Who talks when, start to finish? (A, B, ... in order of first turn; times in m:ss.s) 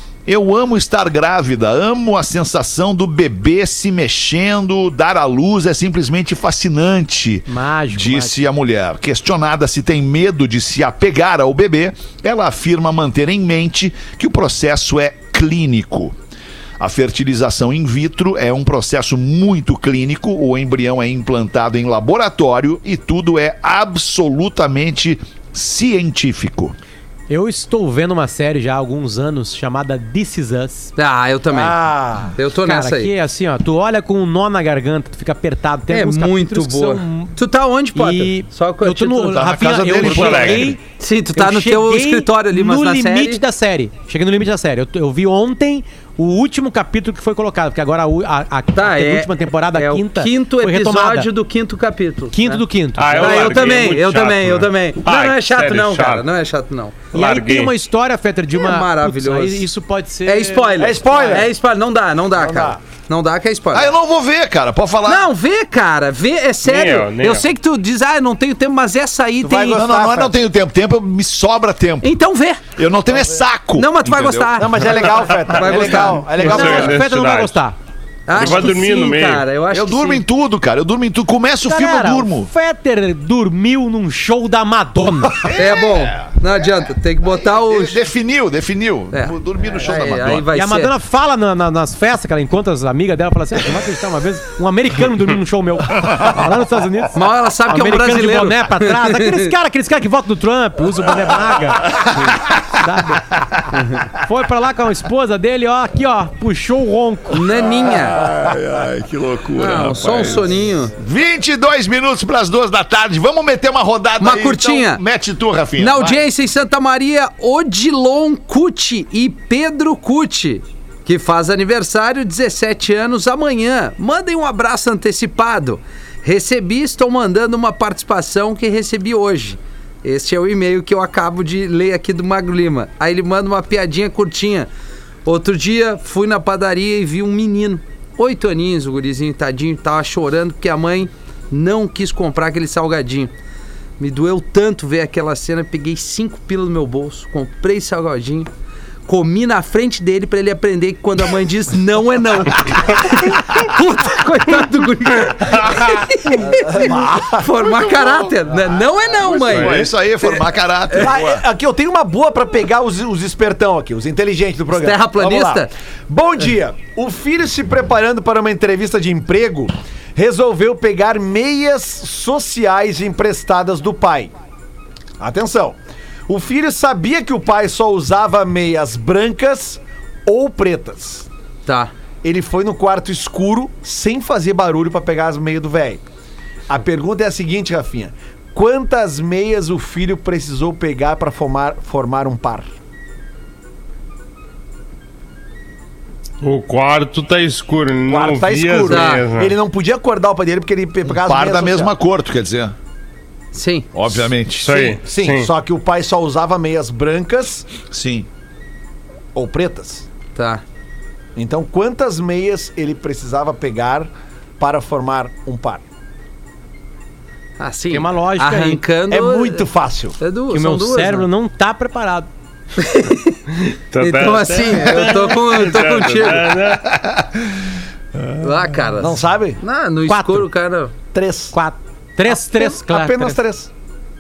0:00.2-0:16.2 A
0:07.5-0:08.4 B
0:16.8-0:26.8 A
0:27.3-0:30.9 B
0:31.0-0:31.8 C
0:31.5-0:32.3 D
0:32.3-0:33.1 C
0:32.6-0:37.4 B
0:35.9-0:39.4 C
0:37.9-0:40.8 B
0:39.3-0:40.8 A
0:40.0-0:40.7 E
0:40.9-0:43.4 C
0:41.3-0:51.3 B
0:48.7-0:57.1 C
0:52.3-0:53.7 B
0:53.0-0:56.2 E
0:57.1-0:57.7 E
0:57.1-1:01.4 B
0:58.5-0:59.6 C
1:00.2-1:03.9 C
1:00.8-1:01.5 D
1:02.3-1:02.8 D
1:03.7-1:05.3 A
1:05.0-1:09.9 C
1:06.6-1:07.5 E
1:09.4-1:10.4 D
1:09.7-1:12.1 A
1:12.0-1:12.7 C
1:12.7-1:14.6 A
1:13.7-1:16.6 C
1:14.6-1:17.0 D
1:15.7-1:17.6 E
1:16.4-1:17.8 B
1:18.3-1:20.2 C
1:18.3-1:19.4 E
1:19.7-1:22.5 A
1:21.6-1:25.4 B
1:25.4-1:26.6 A
1:25.5-1:28.0 C
1:27.2-1:30.5 A
1:29.1-1:30.9 C
1:30.5-1:42.1 B
1:37.1-1:39.5 C
1:41.7-1:42.6 A
1:42.7-1:43.4 B
1:43.3-1:43.6 A
1:44.1-1:47.4 B
1:47.3-1:48.2 C
1:47.5-1:56.2 A
1:49.6-1:50.9 C
1:54.2-1:55.0 C
1:55.8-2:14.7 C
2:15.2-2:23.3 C
2:24.0-2:28.5 C
2:29.1-2:41.2 C
2:36.4-2:37.4 D
2:36.8-2:41.4 A
2:41.0-2:54.3 D
2:44.7-2:45.7 C
2:55.2-3:01.3 D
3:01.6-3:01.9 C
3:02.2-3:06.0 D
3:06.7-3:12.7 D
3:16.4-3:19.6 E
3:18.1-3:21.9 D
3:18.9-3:19.2 C
3:21.0-3:22.7 A
3:23.5-3:23.9 C
3:23.9-3:25.0 A
3:24.6-3:25.5 E
3:25.0-3:27.7 D
3:27.9-3:28.3 A
3:29.3-3:30.0 D
3:30.4-3:30.6 C
3:31.4-3:35.8 D
3:37.6-3:39.7 C
3:37.9-3:38.8 B
3:39.1-3:40.2 D
3:40.2-3:41.3 C
3:40.5-3:42.3 B
3:42.8-3:43.4 C
3:43.7-3:46.9 E
3:44.0-3:46.5 C
3:46.7-3:47.6 A
3:48.4-3:50.9 C
3:49.0-3:49.6 D
3:50.0-3:50.5 B
3:51.1-3:51.5 D
3:51.5-3:53.4 B
3:52.2-3:53.7 D